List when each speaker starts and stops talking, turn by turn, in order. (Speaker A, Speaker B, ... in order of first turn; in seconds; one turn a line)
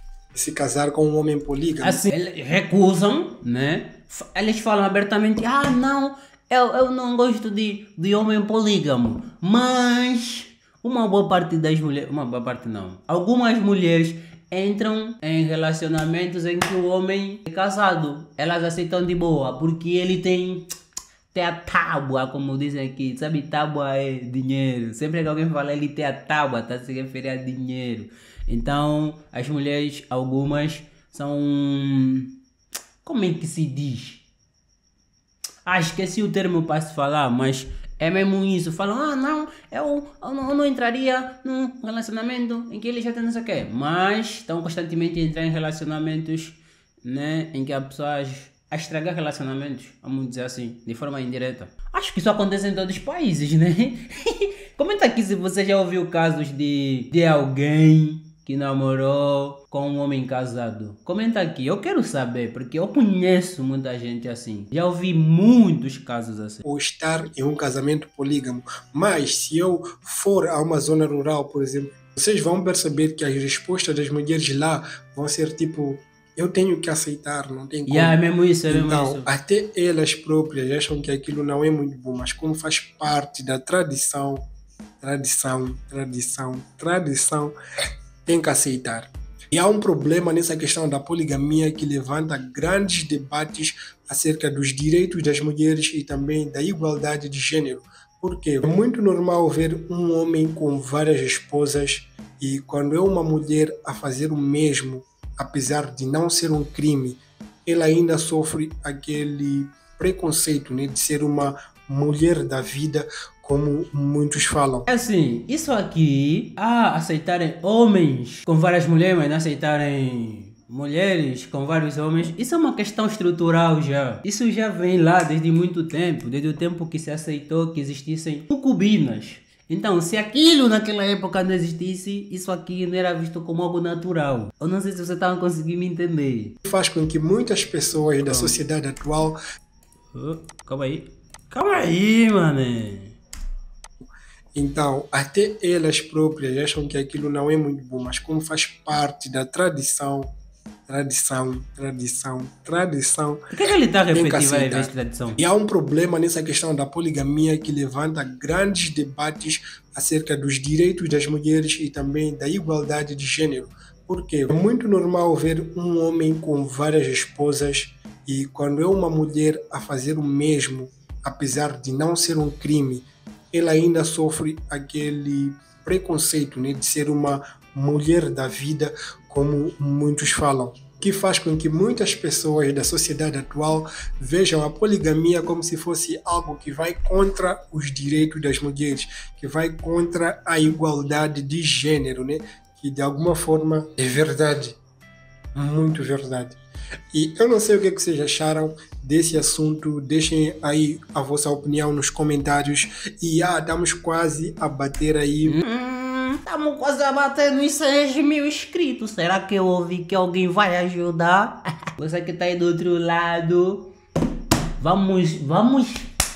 Speaker A: 0.3-2.0
Speaker B: 1.8-20.7
Speaker B: 21.3-32.3
Speaker B: 33.0-34.2
Speaker B: 35.7-66.7
Speaker A: 66.6-84.5
Speaker B: 77.9-79.3
Speaker A: 85.0-87.5
Speaker A: 88.2-114.9
Speaker B: 114.9-136.6
Speaker A: 136.7-139.4
Speaker B: 138.2-138.6
Speaker B: 140.1-143.2
Speaker A: 144.6-150.3
Speaker A: 150.9-153.4
Speaker B: 153.5-155.4
Speaker A: 154.1-194.8
Speaker A: 195.6-196.6
Speaker A: 197.1-205.6
Speaker B: 205.5-213.9
Speaker B: 214.8-216.1